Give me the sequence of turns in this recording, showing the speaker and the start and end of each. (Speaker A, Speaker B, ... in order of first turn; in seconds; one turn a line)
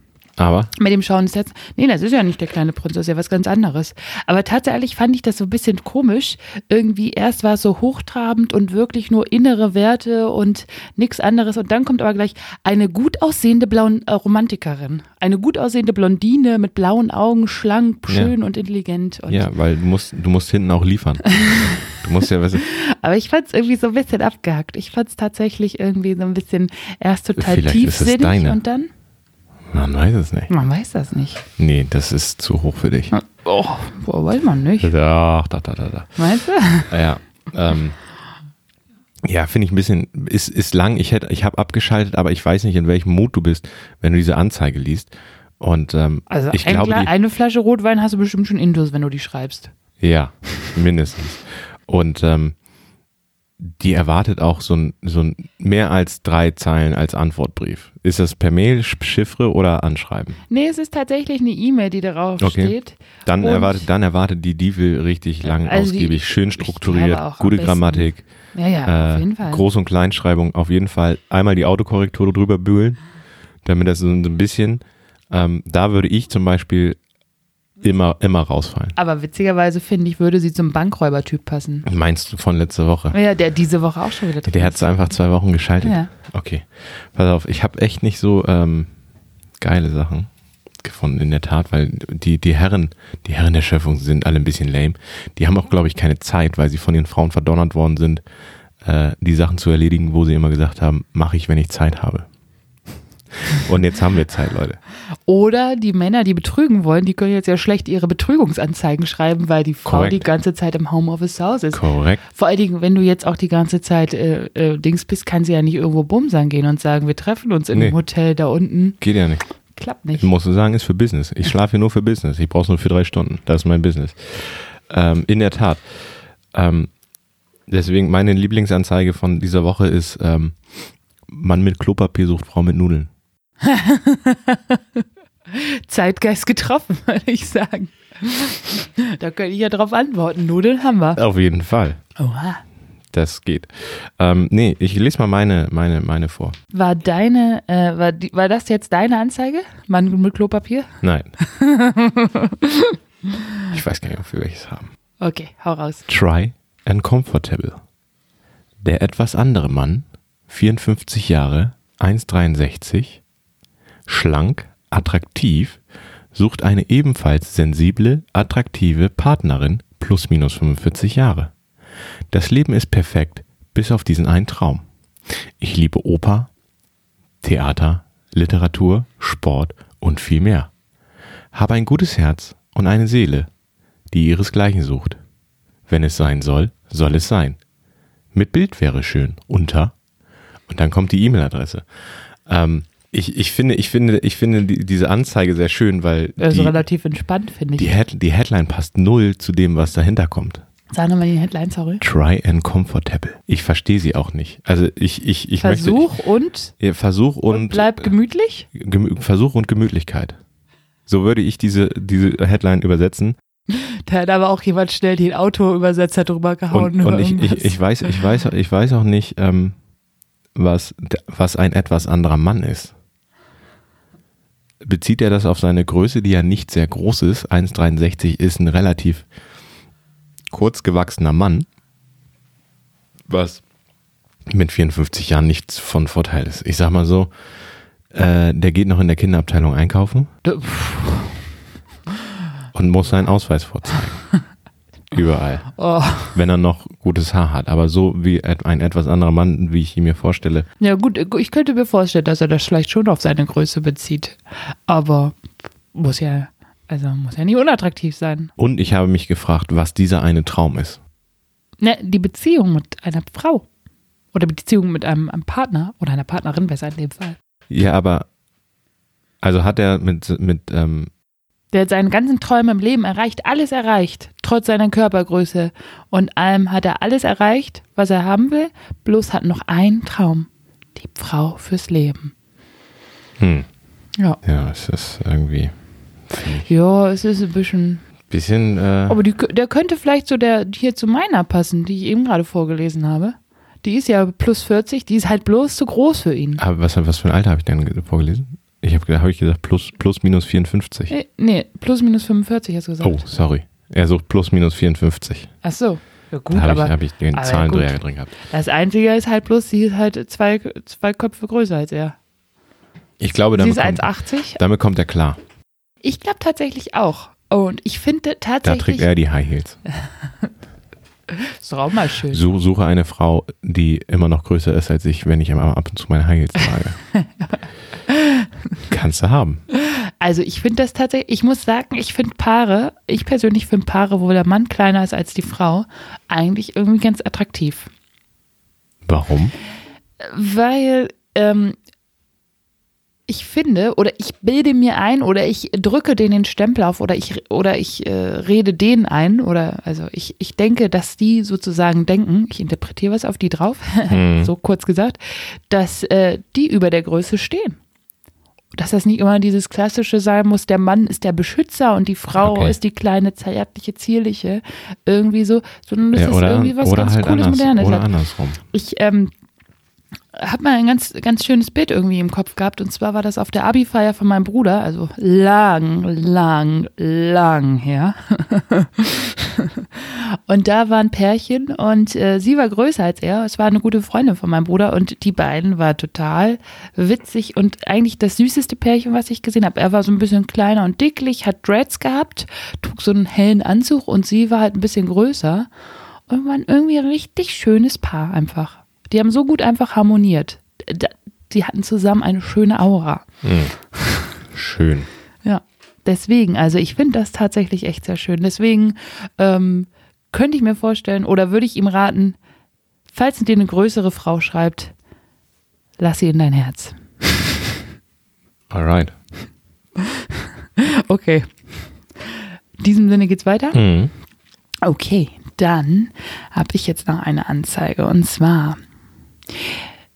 Speaker A: 0.4-0.7
Speaker B: 0.7-19.5
Speaker A: 18.1-18.3
Speaker A: 19.3-22.6
Speaker B: 21.4-21.8
Speaker B: 22.6-28.9
Speaker A: 27.4-28.6
Speaker A: 29.7-30.5
Speaker B: 30.5-31.4
Speaker A: 31.6-33.1
Speaker B: 33.1-34.9
Speaker A: 34.8-36.1
Speaker B: 36.2-36.9
Speaker A: 36.9-38.0
Speaker A: 39.2-47.1
Speaker B: 46.3-49.7
Speaker A: 50.0-52.5
Speaker A: 53.6-60.4
Speaker B: 60.5-63.9
Speaker A: 62.4-68.2
Speaker B: 65.4-69.6
Speaker A: 68.8-73.0
Speaker A: 73.6-77.0
Speaker A: 77.8-79.0
Speaker B: 79.0-81.9
Speaker A: 81.8-83.2
Speaker B: 83.1-85.1
Speaker A: 84.5-88.9
Speaker B: 85.8-86.1
Speaker A: 89.6-90.3
Speaker A: 90.8-98.2
Speaker A: 98.8-102.3
Speaker A: 103.4-104.8
Speaker B: 105.2-119.0
Speaker A: 109.8-110.2
Speaker A: 111.7-112.2
Speaker A: 119.0-119.4
Speaker B: 119.7-120.3
Speaker A: 120.2-125.8
Speaker A: 126.5-126.9
Speaker A: 127.7-133.1
Speaker B: 133.6-141.2
Speaker A: 141.2-142.0
Speaker B: 142.2-142.6
Speaker A: 143.1-146.6
Speaker B: 146.7-153.5
Speaker A: 151.0-151.3
Speaker A: 153.7-154.9
Speaker B: 155.2-156.0
Speaker A: 156.1-157.8
Speaker A: 158.8-163.2
Speaker A: 164.1-165.8
Speaker A: 166.3-171.5
Speaker A: 172.3-174.8
Speaker A: 175.6-176.5
Speaker A: 177.4-180.7
Speaker A: 181.5-183.5
Speaker A: 184.1-185.2
Speaker A: 185.9-187.6
Speaker A: 188.3-189.9
Speaker A: 190.7-191.8
Speaker A: 192.4-196.8
Speaker B: 196.4-197.9
Speaker A: 197.8-200.6
Speaker B: 200.9-202.0
Speaker A: 202.0-206.0
Speaker B: 205.6-206.7
Speaker A: 206.8-208.1
Speaker B: 207.5-208.7
Speaker A: 208.7-210.4
Speaker A: 211.1-213.3
Speaker B: 213.7-218.2
Speaker A: 216.7-219.8
Speaker A: 220.5-222.9
Speaker A: 224.8-229.2
Speaker A: 230.5-231.7
Speaker A: 233.3-233.6
Speaker A: 234.5-237.3
Speaker A: 238.1-240.3
Speaker B: 240.4-241.4
Speaker A: 242.7-244.2
Speaker A: 245.1-245.7
Speaker B: 245.7-246.3
Speaker A: 246.3-250.7
Speaker B: 250.8-255.3
Speaker B: 255.9-258.5
Speaker A: 258.6-261.0
Speaker B: 261.8-263.6
Speaker B: 264.3-267.4
Speaker A: 267.7-268.3
Speaker A: 269.4-271.1
Speaker B: 271.7-282.3
Speaker A: 283.4-283.7
Speaker A: 284.4-285.7
Speaker A: 286.3-286.7
Speaker B: 286.6-288.0
Speaker A: 288.3-289.2
Speaker B: 289.1-296.6
Speaker A: 296.6-301.1
Speaker B: 301.1-303.2
Speaker A: 303.0-305.5
Speaker B: 305.6-312.2
Speaker A: 306.5-308.3
Speaker A: 313.2-315.4
Speaker B: 313.5-314.6
Speaker B: 316.0-319.1
Speaker A: 318.6-319.8
Speaker B: 321.3-322.4
Speaker A: 322.3-327.0
Speaker B: 327.1-328.5
Speaker A: 328.9-329.6
Speaker B: 329.7-337.9
Speaker A: 339.1-339.5
Speaker B: 340.2-341.8
Speaker B: 343.3-357.8
Speaker A: 354.1-354.5
Speaker B: 358.7-368.1
Speaker A: 362.4-362.8
Speaker A: 366.1-368.6
Speaker B: 368.7-369.3
Speaker B: 370.3-395.7
Speaker B: 396.3-403.2
Speaker A: 403.4-403.7
Speaker A: 404.5-405.1
Speaker B: 405.4-412.4
Speaker B: 413.1-414.9
Speaker B: 416.0-417.6
Speaker A: 418.7-419.1
Speaker B: 420.0-421.5
Speaker B: 422.2-423.8
Speaker A: 423.7-424.1
Speaker B: 424.8-428.8